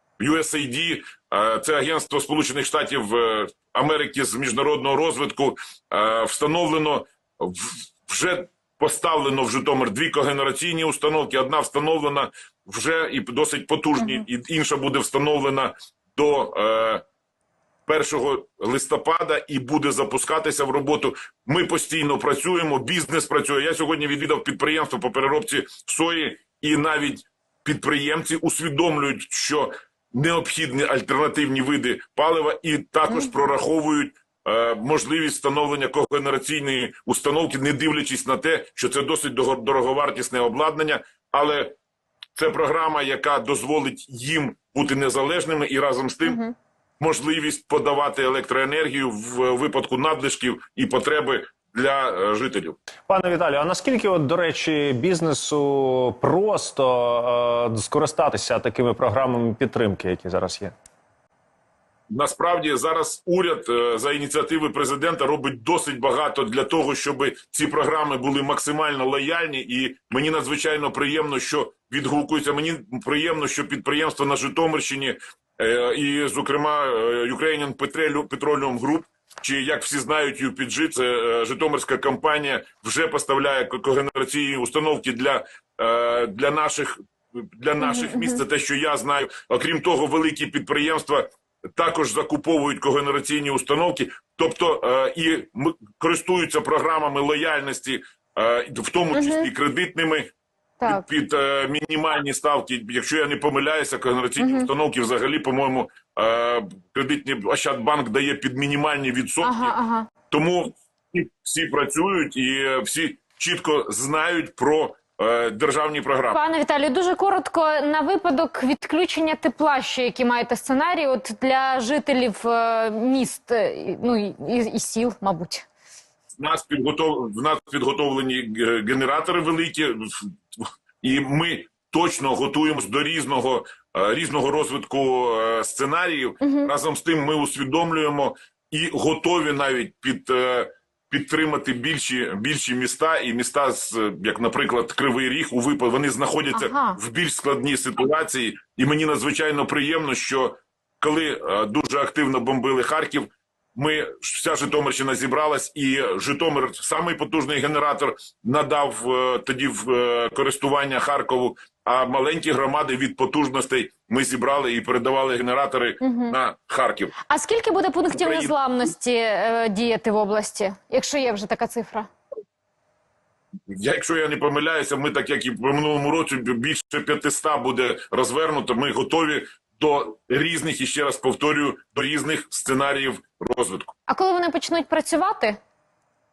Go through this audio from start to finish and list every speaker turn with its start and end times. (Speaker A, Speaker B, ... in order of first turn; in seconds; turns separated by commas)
Speaker A: 0.2-17.0, Speaker A: 17.9-41.7, Speaker A: 42.4-46.4, Speaker B: 46.3-46.5, Speaker A: 47.0-52.8, Speaker C: 53.1-60.8, Speaker A: 62.1-100.3, Speaker B: 87.8-88.4, Speaker B: 99.1-99.5, Speaker A: 100.9-109.7, Speaker B: 104.4-104.7, Speaker B: 109.4-110.1, Speaker A: 110.3-116.4, Speaker B: 116.3-125.7, Speaker A: 126.4-167.1, Speaker B: 136.4-136.7, Speaker B: 146.5-147.0, Speaker B: 166.0-166.4, Speaker B: 167.3-172.1, Speaker A: 168.1-168.6, Speaker A: 173.7-183.9, Speaker B: 184.1-185.6